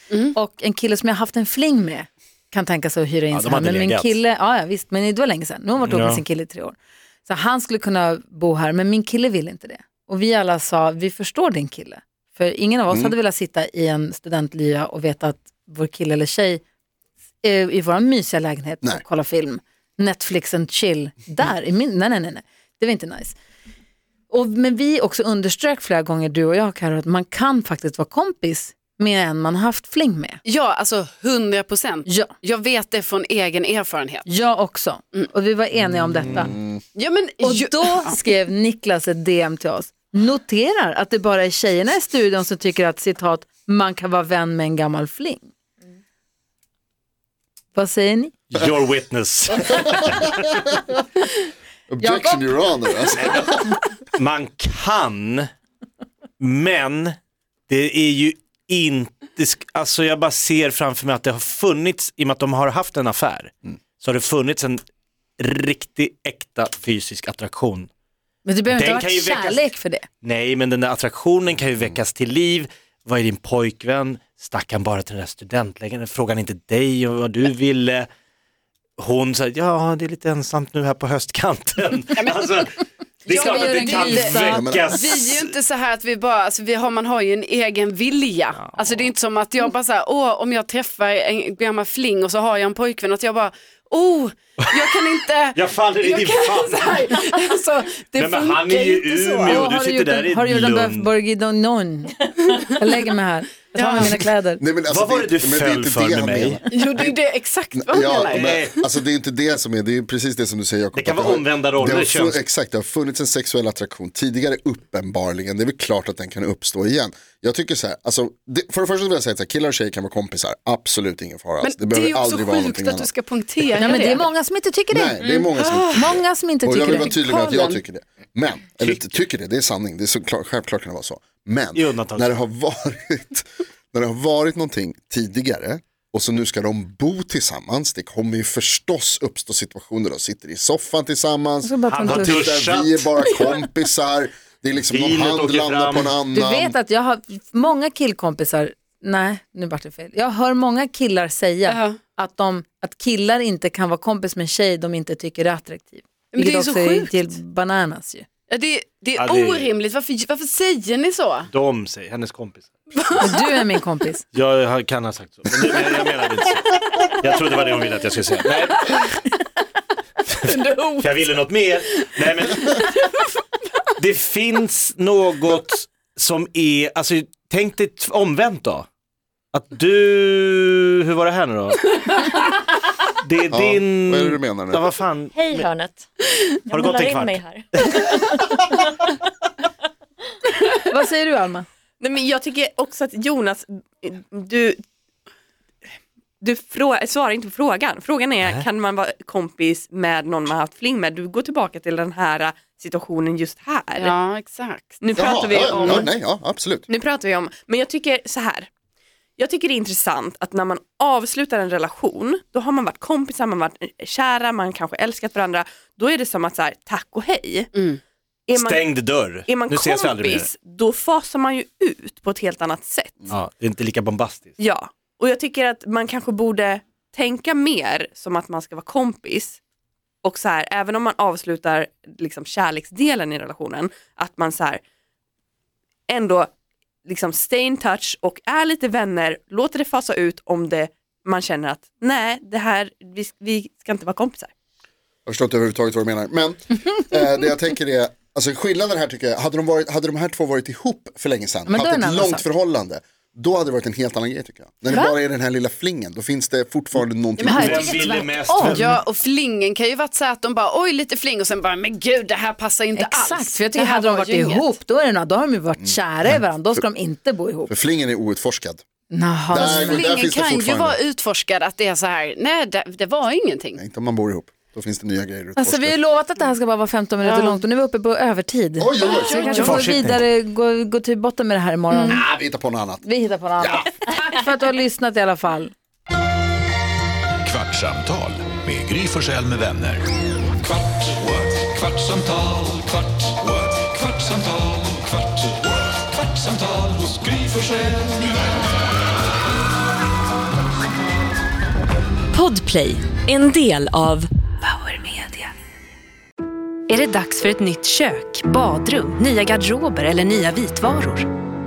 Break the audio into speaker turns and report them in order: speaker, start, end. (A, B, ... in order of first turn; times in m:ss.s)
0:00.3-0:16.6 A
0:03.3-0:04.2 B
0:05.8-0:06.2 B
0:12.9-0:13.2 C
0:17.4-0:23.4 A
0:24.3-0:30.4 A
0:30.4-0:34.3 D
0:32.1-0:32.3 A
0:34.3-0:36.5 A
0:36.2-0:36.8 C
0:37.0-0:38.2 D
0:37.4-0:45.5 A
0:47.7-0:48.3 A
0:48.5-0:50.4 B
0:51.9-0:53.8 C
0:52.0-0:52.8 A
0:53.2-0:53.5 B
0:54.2-0:55.5 B
0:56.4-0:57.2 B
0:57.7-1:04.8 B
1:05.4-1:07.9 B
1:08.4-1:10.1 A
1:08.7-1:18.1 B
1:19.0-1:25.5 B
1:22.2-1:22.5 D
1:23.3-1:39.7 D
1:23.3-1:24.6 A
1:24.5-1:24.9 C
1:34.6-1:35.0 B
1:35.5-1:37.4 B
1:38.1-1:41.1 B
1:39.5-1:44.6 A
1:43.7-1:44.2 D
1:44.6-1:47.2 C
1:44.9-1:46.6 B
1:46.7-1:48.7 D
1:47.7-2:03.1 C
1:48.3-1:48.8 B
1:50.9-1:52.4 B
2:01.6-2:04.2 D
2:03.8-2:05.2 A
2:04.9-2:26.8 C
2:05.2-2:06.1 D
2:05.9-2:07.2 A
2:06.9-2:07.8 D
2:08.8-2:09.2 B
2:11.8-2:12.4 B
2:21.6-2:22.4 A
2:21.9-2:23.1 B
2:24.8-2:26.2 B
2:26.3-2:38.3 A
2:31.7-2:32.0 D
2:36.3-2:37.2 D
2:38.5-2:41.5 D
2:39.2-2:39.7 B
2:41.5-2:42.7 B
2:43.0-2:43.3 D
2:43.2-2:44.2 A
2:44.3-2:49.2 B
2:50.3-2:52.9 B
2:50.5-2:51.2 D
2:54.0-2:58.9 B
2:59.5-3:02.3 B
3:03.2-3:05.7 B
3:03.5-3:04.8 C
3:05.4-3:09.1 E
3:06.7-3:08.0 B
3:10.6-3:11.7 A
3:12.0-3:14.8 F
3:16.4-3:24.1 F
3:24.0-3:25.0 D
3:25.0-3:26.1 F
3:25.2-3:26.9 C
3:26.9-3:28.7 F
3:29.4-3:37.7 F
3:37.8-3:38.0 D
3:38.5-3:43.3 F
3:38.6-3:40.5 B
3:43.3-3:44.5 B
3:44.6-3:49.6 F
3:50.2-3:54.8 F
3:56.1-3:56.5 F
3:57.1-4:04.5 F
4:05.3-4:18.1 C
4:11.7-4:12.5 A
4:17.4-4:19.0 A
4:17.4-4:18.1 D
4:17.5-4:19.0 B
4:18.6-4:24.8 D
4:23.0-4:27.7 A
4:27.7-4:28.8 C
4:29.1-4:30.1 A
4:29.5-4:31.0 C
4:29.5-4:33.8 D
4:33.8-4:36.0 C
4:35.6-4:42.2 A
4:37.2-4:37.6 D
4:38.8-4:39.7 C
4:39.2-4:39.8 D
4:39.6-4:40.2 B
4:41.9-4:42.2 D
4:42.1-4:43.9 C
4:43.0-4:45.7 A
4:47.4-4:50.0 G
4:51.0-4:55.1 G
4:56.4-4:58.2 G
5:02.3-5:04.3 F
5:04.6-5:05.5 H
5:06.9-5:11.3 H